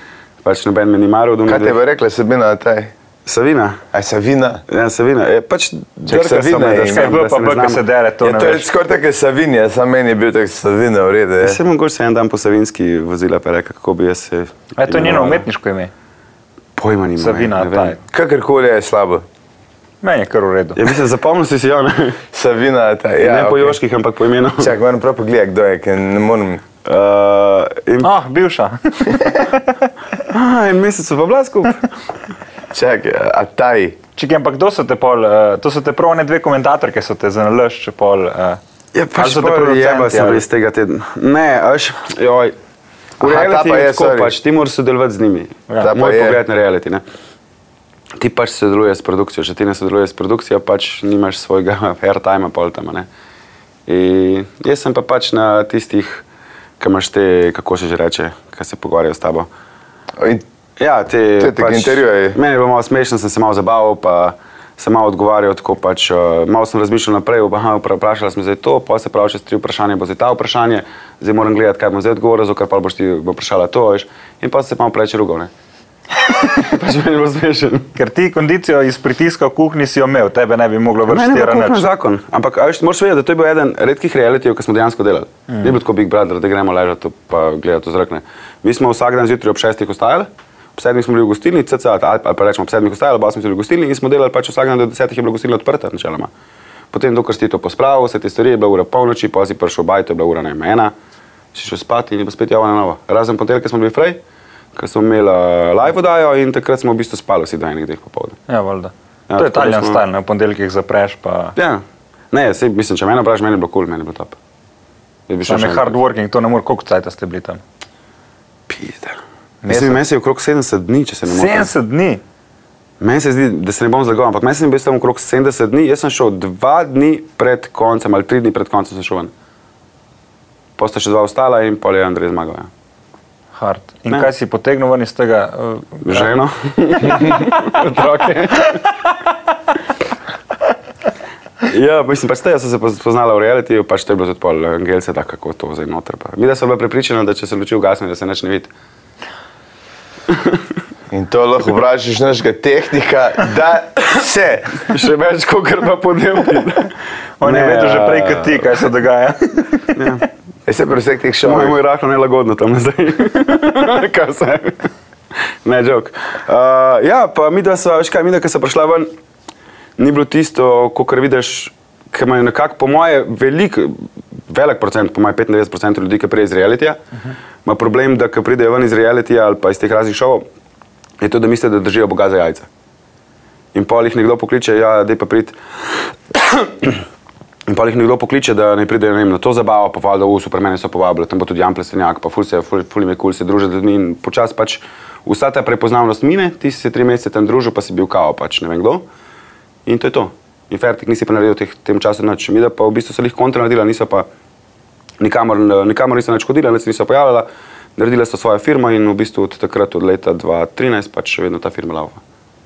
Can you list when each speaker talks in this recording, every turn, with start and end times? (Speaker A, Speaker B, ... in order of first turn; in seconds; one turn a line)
Speaker A: 0.4-1.8
Speaker B: 1.5-2.9
Speaker A: 3.3-3.8
Speaker B: 3.9-4.6
Speaker A: 4.7-7.8
Speaker B: 6.1-7.2
Speaker C: 6.8-8.7
Speaker B: 8.2-11.6
Speaker A: 11.4-15.5
Speaker C: 14.8-15.9
Speaker A: 16.8-18.0
Speaker C: 17.2-18.0
Speaker B: 18.1-19.2
Speaker C: 20.0-20.8
Speaker A: 20.8-22.2
Speaker B: 22.3-23.8
Speaker A: 23.2-24.8
Speaker B: 24.6-26.6
Speaker A: 26.9-28.1
Speaker C: 28.0-29.8
Speaker A: 30.3-31.9
Speaker B: 32.7-34.0
Speaker C: 34.2-38.6
Speaker A: 38.9-42.6
Speaker C: 39.2-40.5
Speaker A: 43.2-47.0
Speaker B: 43.2-44.4
Speaker B: 45.8-46.4
Speaker A: 48.2-53.1
Speaker A: 53.9-56.2
Speaker A: 56.8-59.5
Speaker B: 60.2-60.4
Speaker A: 60.8-75.5
Speaker B: 61.4-62.4
Speaker A: 76.4-77.9
Speaker C: 78.0-81.9
Speaker A: 81.1-96.3
Speaker C: 85.5-85.8
Speaker A: 96.9-100.9
Speaker A: 101.5-104.2
Speaker A: 104.8-108.4
Speaker C: 108.5-111.6
Speaker A: 109.3-110.0
Speaker A: 111.6-114.4
Speaker A: 115.3-116.0
Speaker C: 115.5-117.6
Speaker A: 118.7-121.7
Speaker C: 119.6-120.0
Speaker C: 121.3-122.2
Speaker A: 123.0-129.3
Speaker A: 130.8-132.7
Speaker C: 133.6-136.3
Speaker A: 136.1-138.8
Speaker A: 141.6-148.7
Speaker A: 150.3-150.6
Speaker B: 151.1-154.9
Speaker A: 154.9-158.8
Speaker C: 157.4-160.1
Speaker A: 159.9-160.2
Speaker B: 160.7-161.8
Speaker A: 161.4-164.9
Speaker A: 165.6-169.1
Speaker A: 170.0-177.0
Speaker A: 177.7-180.5
Speaker A: 181.2-182.7
Speaker A: 183.7-187.0
Speaker A: 187.7-199.0
Speaker A: 199.9-204.3
Speaker A: 205.2-207.5
Speaker A: 208.0-212.2